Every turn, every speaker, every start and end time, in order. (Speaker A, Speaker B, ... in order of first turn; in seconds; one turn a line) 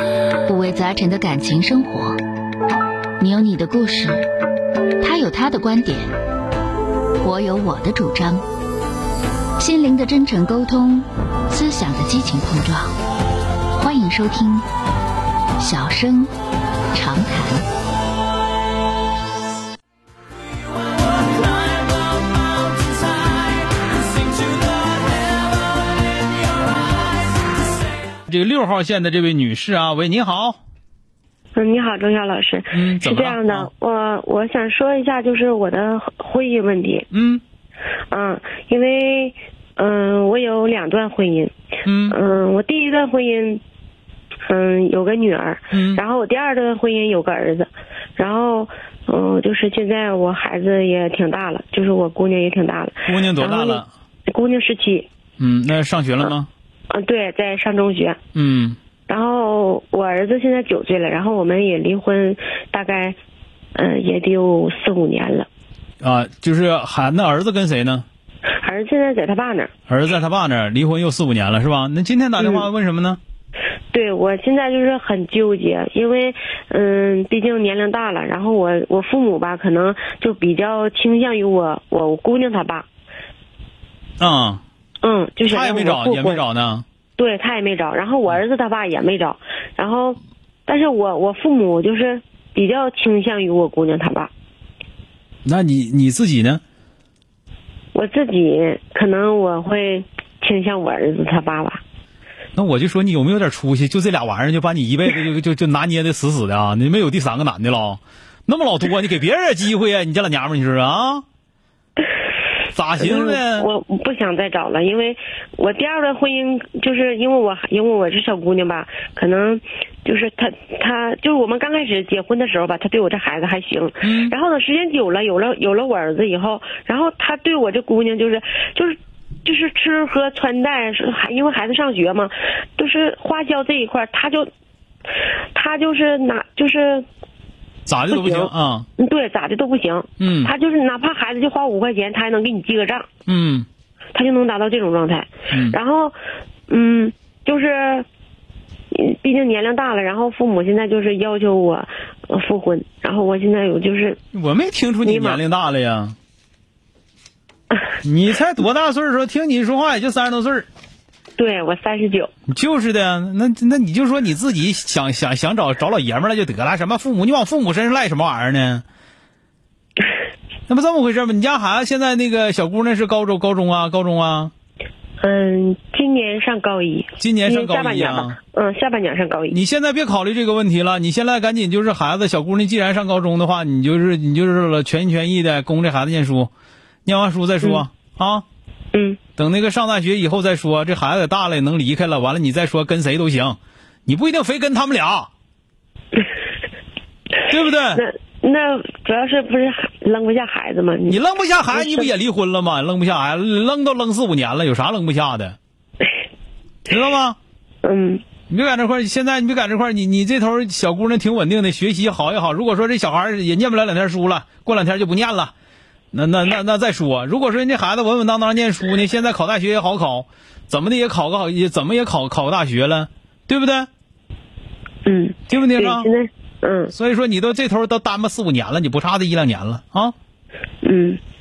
Speaker A: 0.5-2.2
Speaker A: 3.2-4.2
Speaker A: 5.0-6.1
Speaker A: 7.2-8.4
Speaker A: 9.6-12.9
Speaker A: 13.7-14.6
Speaker A: 15.6-16.3
Speaker A: 16.9-17.6
Speaker B: 28.3-30.6
Speaker C: 31.5-37.1
Speaker B: 32.7-33.7
Speaker B: 37.1-37.4
Speaker C: 38.1-41.5
Speaker B: 41.9-42.1
Speaker C: 42.1-43.6
Speaker C: 44.5-55.1
Speaker B: 45.7-46.0
Speaker B: 53.0-53.9
Speaker B: 55.4-56.5
Speaker C: 56.9-58.2
Speaker B: 58.3-58.8
Speaker C: 59.1-63.1
Speaker C: 63.7-65.5
Speaker B: 66.0-68.0
Speaker C: 68.6-69.7
Speaker B: 69.9-73.2
Speaker C: 72.4-72.7
Speaker C: 73.9-82.9
Speaker B: 84.2-84.6
Speaker C: 85.0-86.4
Speaker B: 85.4-86.8
Speaker C: 87.2-94.3
Speaker B: 95.4-96.6
Speaker C: 97.9-101.8
Speaker B: 102.5-111.2
Speaker B: 112.7-113.7
Speaker C: 113.0-134.5
Speaker B: 124.0-124.3
Speaker C: 135.5-137.0
Speaker B: 137.8-138.9
Speaker C: 138.1-143.1
Speaker B: 140.2-140.5
Speaker B: 143.3-143.7
Speaker C: 144.1-146.1
Speaker B: 145.5-145.8
Speaker C: 146.7-148.1
Speaker C: 148.9-154.2
Speaker B: 154.3-156.1
Speaker C: 155.0-155.4
Speaker B: 158.0-160.7
Speaker C: 161.4-162.3
Speaker B: 162.5-168.8
Speaker B: 170.7-174.5
Speaker C: 175.2-179.6
Speaker B: 177.2-178.4
Speaker B: 179.5-186.5
Speaker B: 187.1-188.4
Speaker C: 188.9-189.2
Speaker B: 189.4-195.3
Speaker B: 197.5-198.0
Speaker C: 197.9-201.2
Speaker B: 201.1-205.6
Speaker C: 201.7-202.1
Speaker B: 206.9-207.4
Speaker C: 207.8-208.2
Speaker B: 208.5-215.5
Speaker B: 216.1-223.9
Speaker C: 225.0-226.9
Speaker B: 225.5-226.1
Speaker B: 226.9-230.1
Speaker C: 230.8-231.2